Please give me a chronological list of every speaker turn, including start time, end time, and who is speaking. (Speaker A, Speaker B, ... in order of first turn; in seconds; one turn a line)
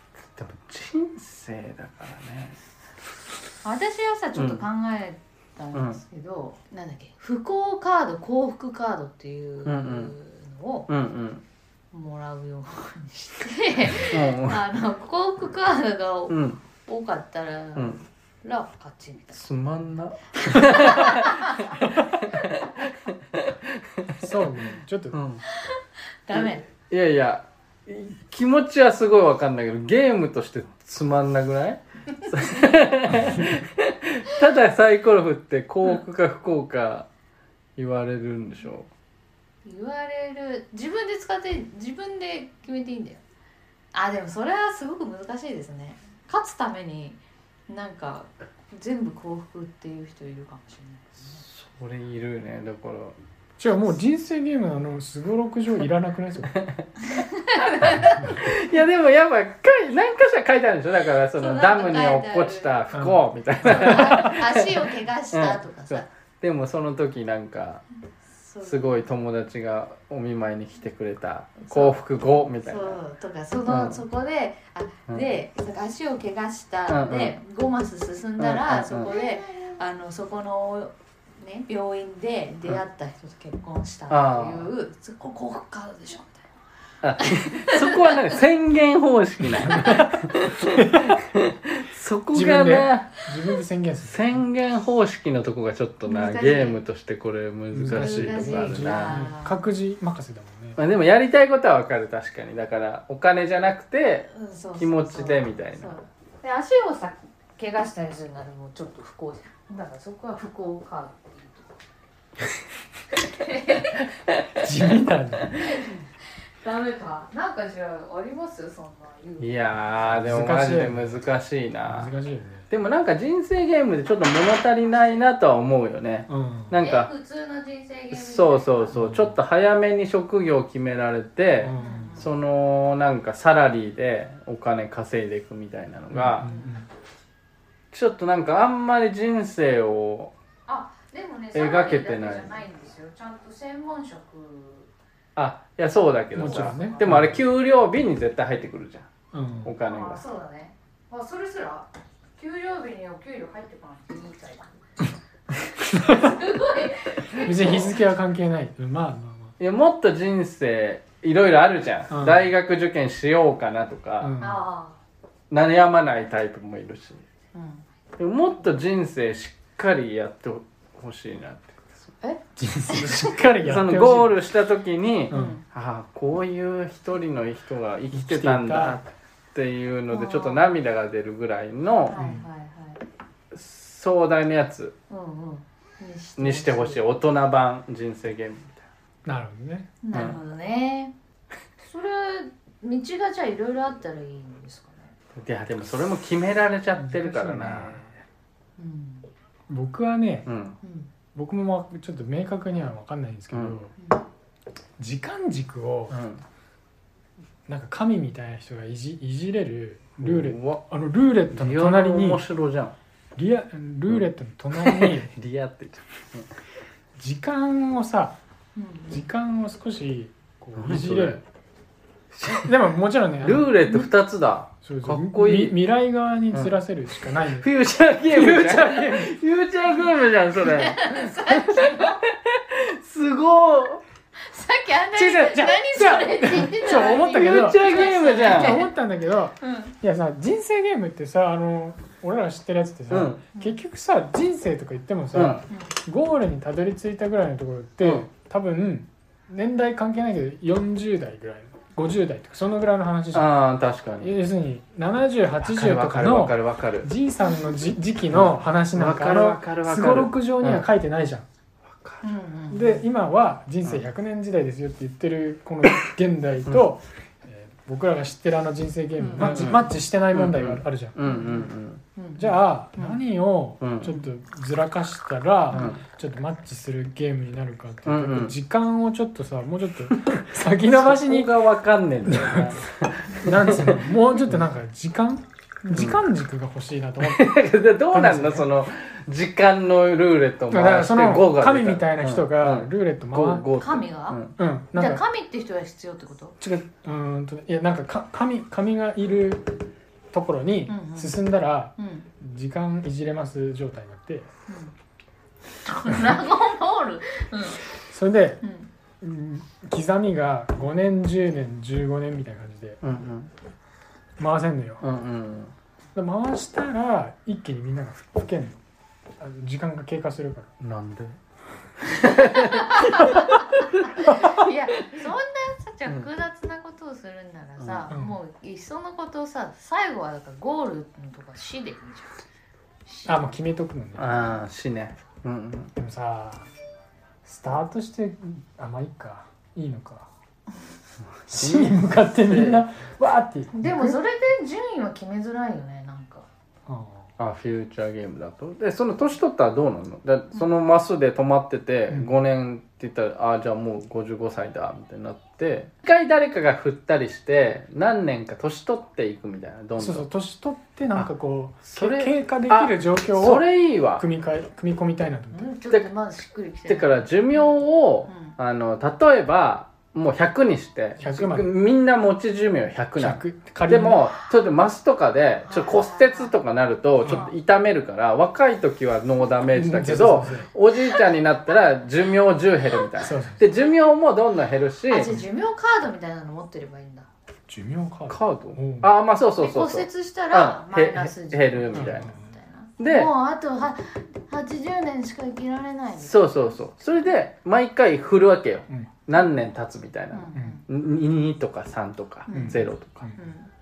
Speaker A: 0.3-2.6
Speaker B: 3.6-10.9
Speaker A: 4.3-4.6
Speaker A: 5.7-6.0
Speaker A: 9.7-10.1
Speaker A: 10.9-11.4
Speaker B: 11.9-19.4
Speaker A: 13.9-14.6
Speaker A: 16.3-16.6
Speaker A: 19.4-24.5
Speaker B: 20.4-21.8
Speaker C: 24.2-25.2
Speaker A: 25.1-25.4
Speaker B: 25.5-26.6
Speaker A: 26.3-37.1
Speaker A: 37.8-38.9
Speaker B: 39.6-43.2
Speaker B: 43.9-51.4
Speaker A: 51.3-53.2
Speaker C: 53.6-56.6
Speaker A: 56.5-56.8
Speaker B: 57.1-58.2
Speaker C: 58.1-58.4
Speaker A: 58.2-64.8
Speaker B: 61.4-62.7
Speaker C: 62.9-64.4
Speaker B: 63.7-66.1
Speaker A: 65.3-67.8
Speaker B: 68.3-69.1
Speaker A: 68.6-73.0
Speaker B: 71.6-72.0
Speaker B: 72.6-86.5
Speaker A: 73.6-74.0
Speaker A: 76.9-77.4
Speaker A: 78.4-79.1
Speaker A: 84.1-84.7
Speaker A: 87.0-93.2
Speaker B: 87.2-88.2
Speaker C: 89.7-90.2
Speaker B: 89.8-90.1
Speaker C: 90.7-91.2
Speaker C: 92.3-94.4
Speaker A: 94.0-99.2
Speaker B: 96.0-96.8
Speaker C: 97.7-100.8
Speaker B: 97.9-99.6
Speaker A: 100.8-106.0
Speaker B: 104.3-111.7
Speaker B: 113.1-114.0
Speaker C: 114.6-115.6
Speaker B: 115.6-116.0
Speaker B: 116.6-119.6
Speaker A: 119.4-122.1
Speaker C: 120.1-121.2
Speaker C: 121.8-122.7
Speaker A: 122.7-127.1
Speaker B: 124.9-125.2
Speaker C: 126.3-126.7
Speaker B: 126.8-129.0
Speaker A: 128.1-136.5
Speaker C: 128.9-129.3
Speaker C: 131.6-132.2
Speaker B: 131.8-132.3
Speaker C: 136.1-136.9
Speaker B: 136.4-136.7
Speaker A: 137.9-140.3
Speaker B: 140.7-144.9
Speaker A: 141.5-142.6
Speaker A: 145.4-149.1
Speaker C: 146.3-147.4
Speaker B: 146.4-147.2
Speaker C: 149.3-149.7
Speaker A: 149.6-150.2
Speaker B: 149.8-154.7
Speaker B: 155.8-157.9
Speaker C: 157.4-159.6
Speaker A: 159.6-164.4
Speaker C: 162.1-162.5
Speaker C: 164.2-164.6
Speaker B: 164.4-165.0
Speaker A: 165.5-167.2
Speaker B: 167.5-167.9
Speaker A: 168.2-172.1
Speaker B: 172.2-173.4
Speaker C: 172.6-174.4
Speaker A: 173.6-182.2
Speaker B: 175.3-175.6
Speaker C: 175.3-175.6
Speaker C: 178.1-179.1
Speaker B: 180.1-180.8
Speaker B: 182.1-183.0
Speaker C: 182.1-182.4
Speaker A: 183.5-185.0
Speaker B: 185.1-187.1
Speaker A: 186.4-188.9
Speaker C: 189.2-189.9
Speaker B: 190.0-191.1
Speaker A: 190.1-190.4
Speaker B: 191.8-195.1
Speaker A: 195.4-198.1
Speaker C: 197.0-198.1
Speaker B: 198.8-199.3
Speaker C: 199.7-200.5
Speaker A: 200.5-200.8
Speaker B: 200.8-201.1
Speaker C: 201.3-203.9
Speaker A: 203.5-203.8
Speaker B: 204.0-204.2
Speaker C: 205.0-206.2
Speaker A: 206.1-206.4
Speaker C: 207.7-212.4
Speaker A: 210.2-210.8
Speaker A: 211.5-213.0
Speaker C: 213.3-215.3
Speaker A: 214.1-216.5
Speaker C: 217.2-218.4
Speaker B: 218.8-219.3
Speaker C: 219.1-221.4
Speaker A: 220.8-221.4
Speaker A: 222.3-222.7
Speaker C: 222.5-224.1
Speaker A: 223.4-225.8
Speaker C: 224.8-227.7
Speaker A: 227.3-234.0
Speaker C: 228.3-229.4
Speaker B: 230.6-232.2
Speaker B: 234.4-238.9
Speaker C: 235.2-253.5
Speaker A: 236.9-238.9
Speaker B: 239.6-239.9
Speaker A: 243.1-243.4
Speaker A: 245.3-245.6
Speaker A: 248.0-248.3
Speaker A: 253.3-254.4
Speaker C: 254.2-261.5
Speaker A: 255.6-257.1
Speaker A: 258.3-260.9
Speaker A: 261.9-262.2
Speaker B: 262.2-263.0
Speaker C: 262.7-271.3
Speaker B: 269.2-269.5
Speaker A: 269.4-272.0
Speaker B: 271.2-273.2
Speaker C: 272.4-281.6
Speaker A: 273.8-274.1
Speaker A: 275.7-276.0
Speaker A: 278.1-278.5
Speaker A: 280.1-284.1
Speaker C: 282.2-282.9
Speaker C: 283.4-287.6
Speaker A: 285.9-286.2
Speaker A: 287.2-294.6
Speaker C: 288.1-288.7
Speaker C: 290.7-293.7
Speaker B: 293.8-294.4
Speaker C: 294.6-295.2
Speaker B: 294.9-296.6
Speaker C: 296.6-299.8
Speaker C: 300.3-304.5
Speaker B: 300.9-301.4
Speaker B: 302.0-302.3
Speaker B: 304.7-304.9
Speaker B: 305.8-307.9
Speaker C: 308.0-308.6
Speaker B: 308.6-308.9
Speaker C: 309.2-313.0
Speaker A: 313.0-313.5
Speaker C: 314.4-315.0
Speaker A: 315.0-315.7
Speaker C: 316.1-318.8
Speaker C: 319.4-320.7
Speaker A: 320.8-321.4
Speaker A: 322.0-323.3
Speaker B: 322.3-332.4
Speaker A: 327.8-328.1
Speaker C: 328.1-328.4
Speaker B: 333.1-333.4
Speaker C: 333.3-334.5
Speaker A: 334.2-335.9
Speaker C: 336.0-336.7
Speaker C: 337.4-340.3
Speaker A: 341.5-342.8
Speaker C: 341.5-344.2
Speaker B: 343.7-346.5
Speaker C: 346.9-347.3
Speaker A: 347.4-360.3
Speaker C: 360.0-365.7
Speaker A: 361.9-364.2
Speaker B: 365.5-368.6
Speaker A: 366.9-385.4
Speaker C: 371.2-371.7
Speaker C: 373.2-374.3
Speaker B: 375.6-376.6
Speaker C: 377.2-377.5
Speaker C: 379.7-380.7
Speaker C: 383.2-383.6
Speaker B: 385.1-387.3
Speaker C: 387.7-389.1
Speaker A: 388.3-392.3
Speaker B: 389.6-397.3
Speaker C: 391.9-392.4
Speaker A: 393.0-393.3
Speaker A: 396.2-403.4
Speaker B: 400.3-400.9
Speaker B: 402.5-402.8
Speaker C: 402.5-403.4
Speaker B: 403.4-403.7